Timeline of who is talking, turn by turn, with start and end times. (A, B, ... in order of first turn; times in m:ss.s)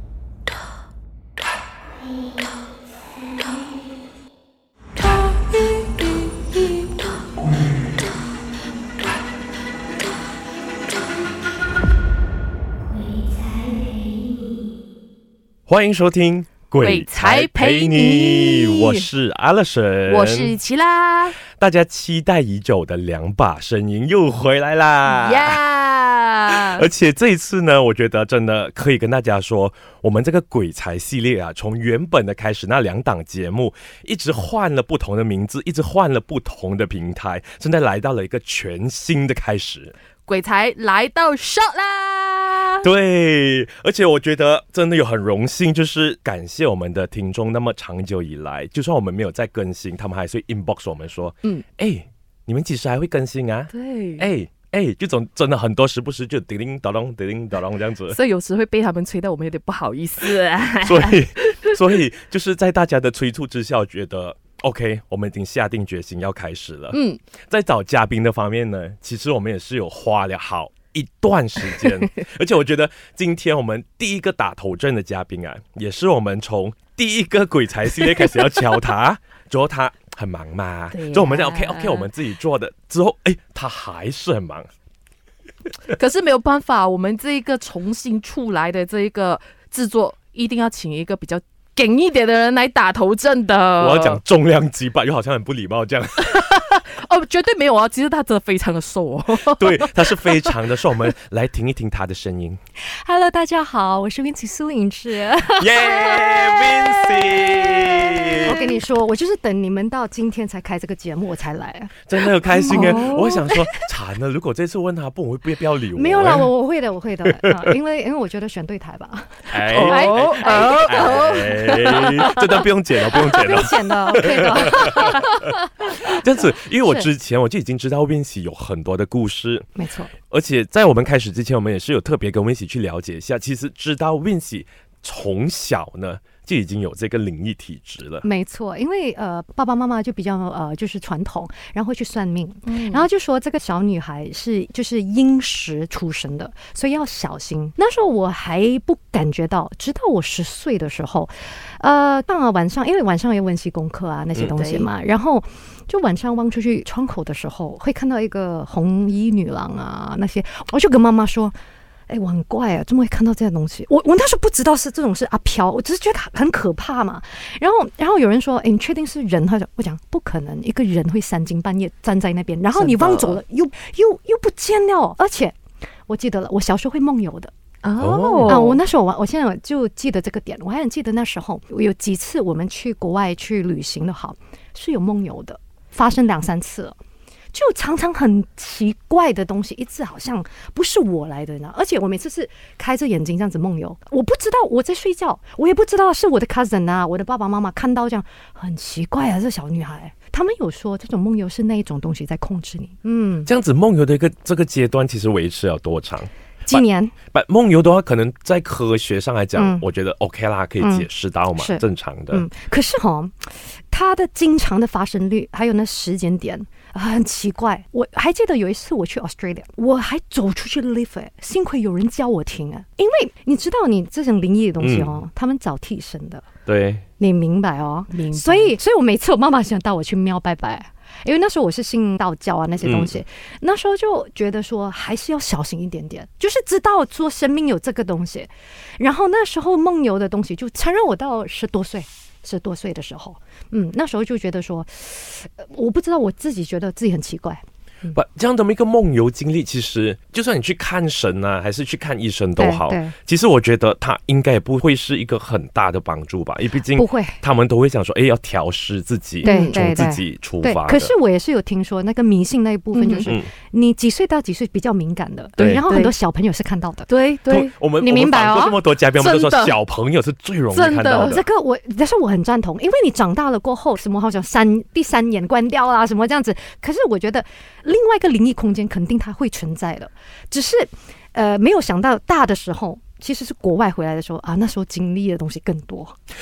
0:13.1-0:13.9 A
0:15.7-0:20.5 B
0:16.8-0:19.1 A
0:20.0-0:21.4 A
0:21.5-0:25.6 B
0:25.0-0:26.9 A
0:26.5-0:39.9 B
0:40.2-0:42.9 A
0:42.8-0:58.2 B
0:53.7-0:54.3 A
0:58.1-1:01.7 A
1:00.8-1:24.7 B
1:06.9-1:07.2 A
1:20.9-1:22.1 A
1:25.9-1:34.2 A
1:33.8-1:36.4 B
1:36.2-1:40.5 A
1:39.5-1:42.6 B
1:42.8-1:47.1 C
1:45.6-1:48.6 B
1:47.7-1:48.7 A
1:48.4-1:53.5 C
1:52.1-1:56.5 B
1:52.7-1:53.5 A
1:55.9-2:01.2 C
1:57.4-1:57.7 B
1:59.5-2:09.6 B
1:59.6-2:03.4 A
2:03.2-2:05.2 C
2:04.1-2:05.4 A
2:09.8-2:10.1 C
2:10.3-2:18.3 B
2:18.2-2:41.5 C
2:22.6-2:23.0 A
2:34.5-2:34.9 A
2:42.1-2:57.5 C
2:52.7-2:53.4 A
2:57.8-2:58.8 A
2:58.0-2:58.7 B
2:58.4-3:07.0 C
3:07.5-3:23.5 C
3:23.4-3:32.5 B
3:26.6-3:27.1 C
3:29.6-3:29.8 C
3:30.8-3:46.4 C
3:44.8-3:45.2 B
3:46.6-3:47.0 B
3:47.2-4:08.2 C
3:48.1-3:48.7 A
3:52.8-3:53.2 B
4:08.1-4:21.1 B
4:12.6-4:13.1 C
4:16.9-4:17.4 C
4:19.4-4:27.1 C
4:19.4-4:19.8 A
4:22.9-4:23.3 A
4:23.2-4:23.5 B
4:25.6-4:26.1 A
4:27.1-4:27.7 A
4:27.5-4:31.4 B
4:28.0-4:28.7 C
4:29.2-4:29.8 A
4:30.7-4:31.4 A
4:31.1-4:46.2 C